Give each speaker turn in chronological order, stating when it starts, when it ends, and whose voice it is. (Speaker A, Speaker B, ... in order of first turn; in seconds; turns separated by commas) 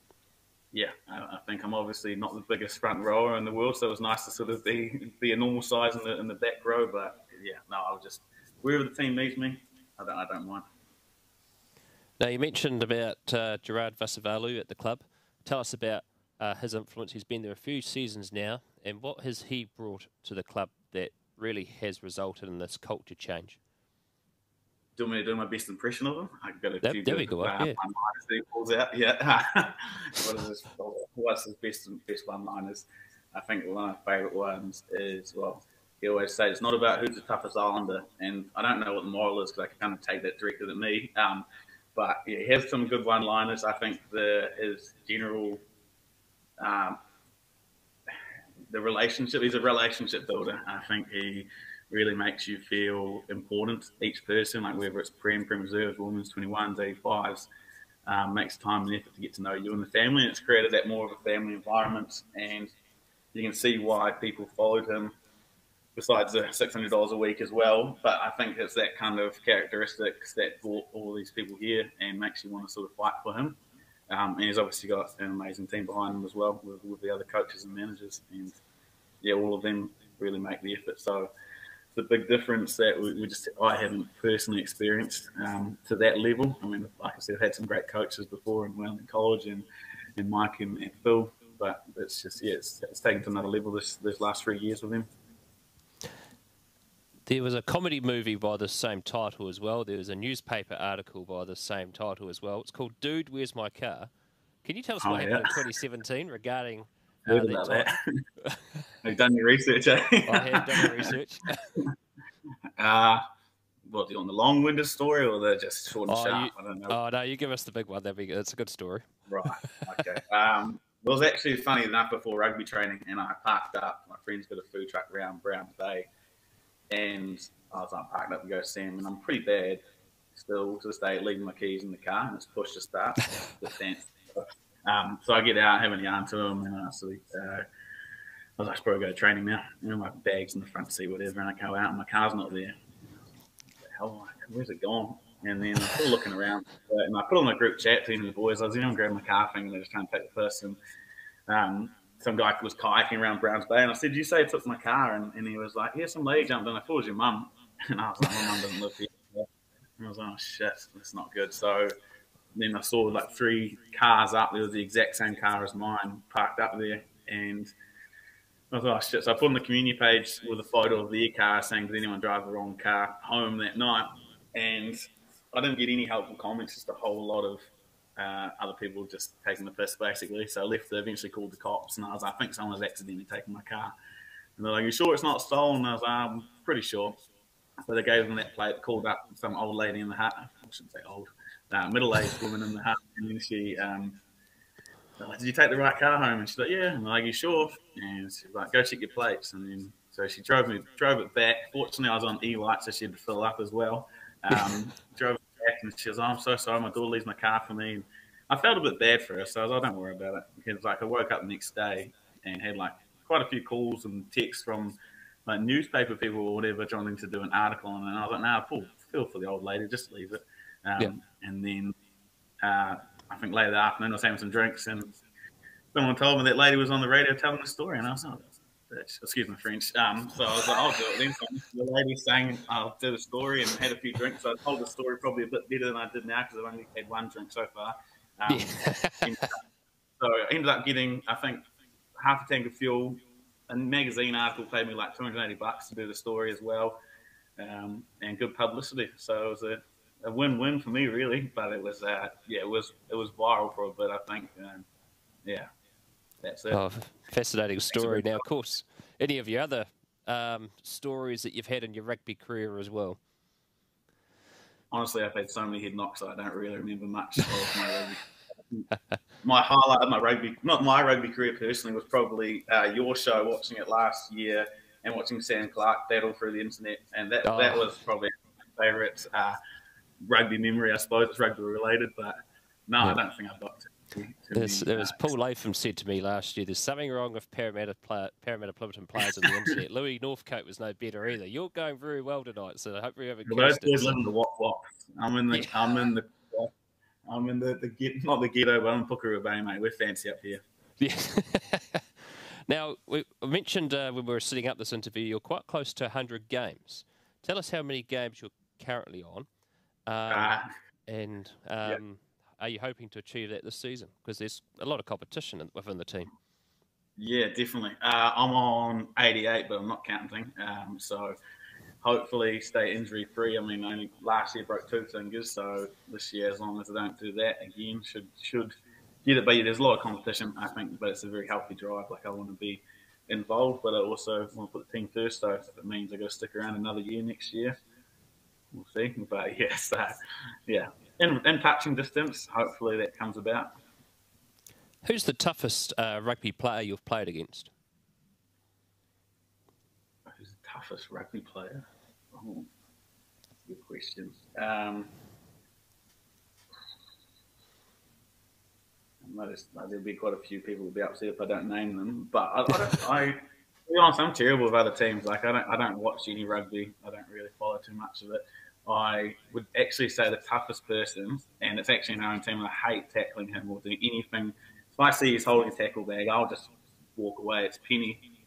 Speaker A: 0.7-10.6, Speaker B: 12.2-23.6, Speaker A: 25.0-45.6, Speaker B: 26.8-27.8, Speaker A: 46.6-47.0, Speaker A: 48.7-57.5, Speaker A: 58.1-62.7, Speaker A: 63.3-65.2, Speaker A: 66.0-78.6, Speaker A: 79.2-81.3, Speaker A: 81.9-89.7, Speaker A: 90.2-95.1, Speaker B: 97.3-104.1, Speaker B: 104.6-107.9, Speaker A: 105.0-105.5, Speaker A: 107.2-108.2, Speaker A: 109.0-111.0, Speaker B: 110.2-111.6, Speaker A: 112.8-113.2, Speaker A: 113.8-117.0, Speaker B: 116.1-119.2, Speaker A: 119.3-126.1, Speaker A: 126.9-129.8, Speaker A: 130.3-137.6, Speaker A: 138.6-142.8, Speaker A: 143.9-150.8, Speaker A: 151.5-159.5, Speaker A: 160.0-161.9, Speaker A: 162.5-167.7, Speaker A: 168.7-175.0, Speaker A: 175.5-183.9, Speaker A: 184.6-187.2, Speaker A: 187.8-194.2, Speaker A: 195.2-221.9, Speaker A: 222.6-225.2, Speaker A: 225.9-239.6, Speaker B: 238.5-239.3, Speaker A: 240.2-241.7, Speaker A: 242.2-247.0, Speaker A: 247.6-254.9, Speaker A: 255.4-255.7, Speaker A: 256.4-256.8, Speaker B: 256.7-263.2, Speaker A: 257.9-258.4, Speaker A: 264.9-268.8, Speaker A: 269.4-279.6, Speaker B: 277.4-277.9, Speaker A: 280.2-285.2, Speaker B: 284.5-294.2, Speaker A: 293.4-296.7, Speaker A: 297.2-300.6, Speaker B: 301.0-309.5, Speaker B: 310.1-310.5, Speaker A: 310.3-310.7, Speaker B: 311.1-316.3, Speaker A: 317.2-321.4, Speaker A: 322.0-328.7, Speaker A: 329.2-337.8, Speaker A: 338.7-343.7, Speaker B: 345.0-347.7, Speaker A: 350.3-352.7, Speaker A: 353.6-355.1, Speaker A: 359.2-378.3